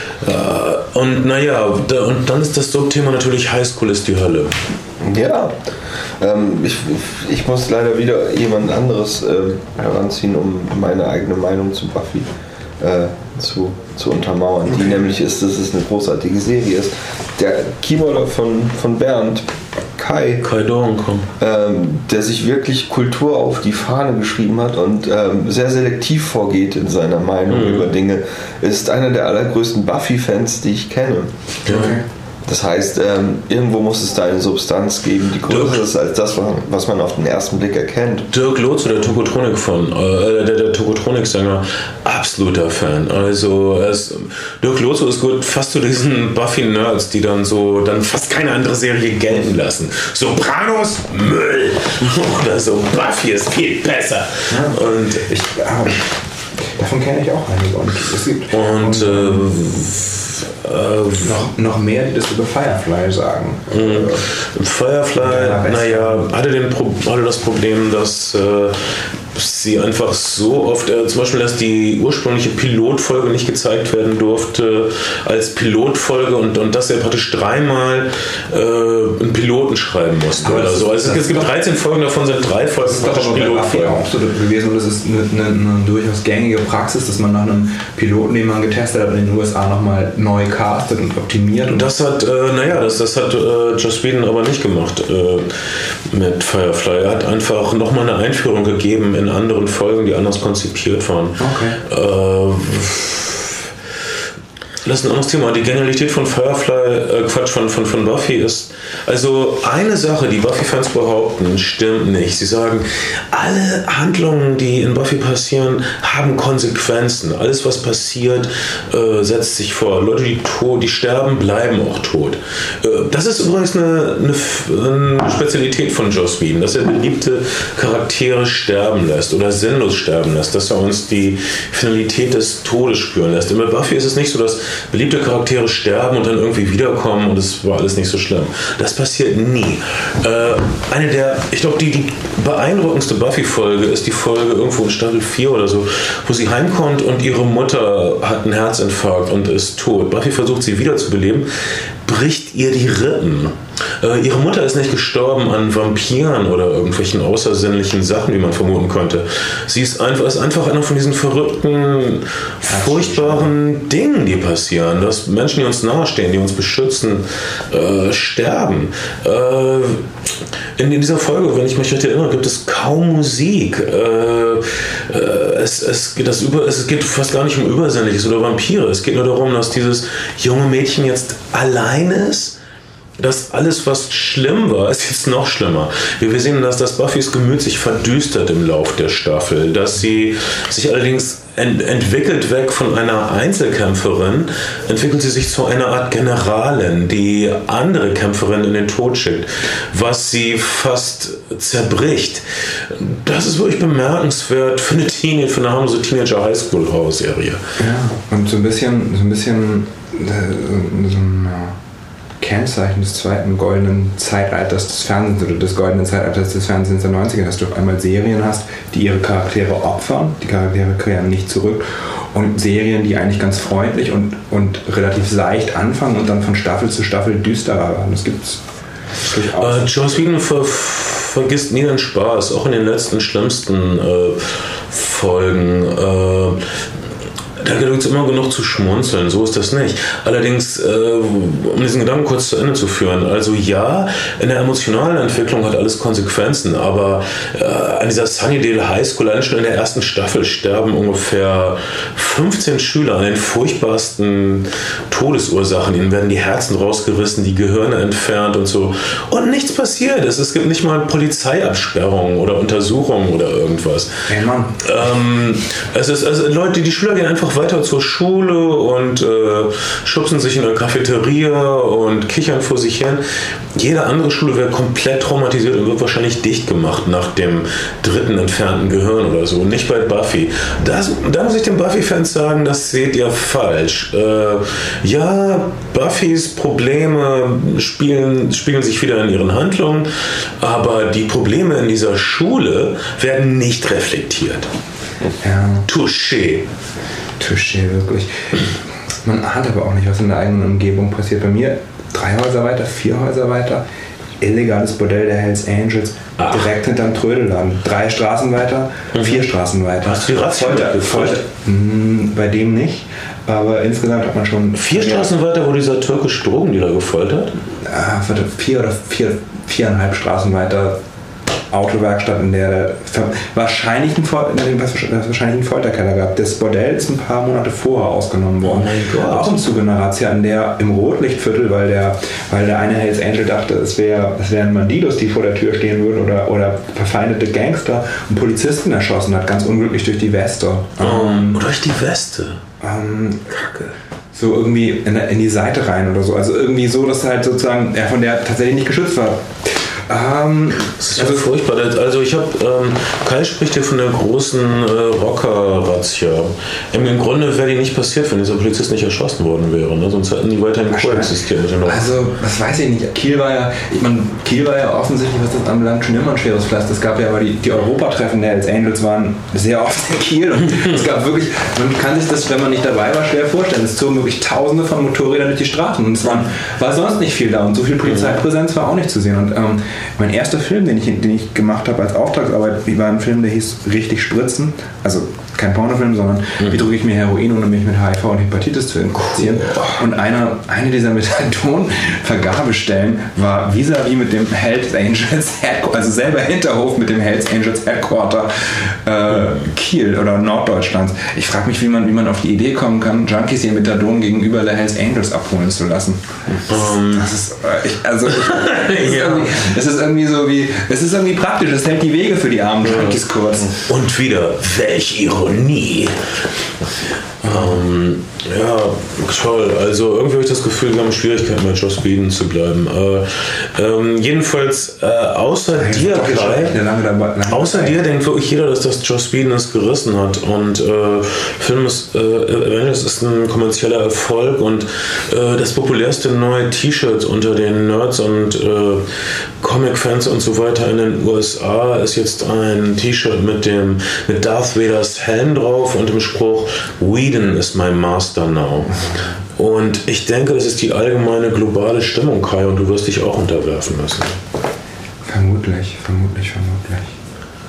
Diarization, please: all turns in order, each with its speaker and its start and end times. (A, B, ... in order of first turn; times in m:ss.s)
0:00.2-0:04.6 A
0:05.0-0:05.6 B
0:06.2-0:20.4 B
0:20.4-0:21.3 A
0:21.4-0:31.3 B
0:27.5-0:27.9 A
0:31.7-0:32.0 A
0:31.7-0:32.0 C
0:32.5-0:38.3 B
0:35.5-0:35.8 A
0:38.3-0:55.3 A
0:54.5-0:56.1 C
0:56.8-0:59.5 C
0:58.5-1:01.5 A
1:01.2-1:04.2 C
1:03.7-1:24.0 A
1:05.2-1:06.3 C
1:20.4-1:21.5 C
1:22.8-1:31.9 C
1:31.7-1:43.7 A
1:41.4-1:41.8 C
1:44.8-2:31.5 A
2:32.0-2:50.1 A
2:42.7-2:43.5 C
2:50.8-3:02.6 A
3:03.2-3:27.6 A
3:27.8-3:31.8 C
3:32.4-3:48.6 C
3:49.2-3:50.0 C
3:49.6-3:56.6 A
3:57.6-4:24.2 A
4:24.3-4:24.8 C
4:24.8-4:33.2 A
4:33.8-4:54.7 A
4:55.4-4:55.9 C
4:55.9-4:56.7 A
4:57.4-4:58.7 C
4:59.2-5:03.8 C
5:04.4-5:15.3 C
5:06.4-5:06.7 A
5:09.2-5:09.5 A
5:10.0-5:11.4 A
5:14.8-5:17.6 A
5:17.8-5:21.0 C
5:21.7-5:41.6 C
5:28.6-5:29.6 A
5:41.0-5:42.6 A
5:42.8-5:43.7 C
5:44.3-5:51.5 C
5:51.0-6:02.2 A
6:00.9-6:53.8 C
6:29.3-6:30.0 A
6:46.7-6:47.3 A
6:48.4-6:49.7 A
6:52.9-6:53.2 A
6:53.7-6:56.2 A
6:57.4-7:06.8 A
6:57.5-6:57.7 C
7:05.8-7:08.0 C
7:07.5-7:19.1 A
7:19.6-7:34.4 A
7:28.9-7:29.3 C
7:35.3-7:37.2 C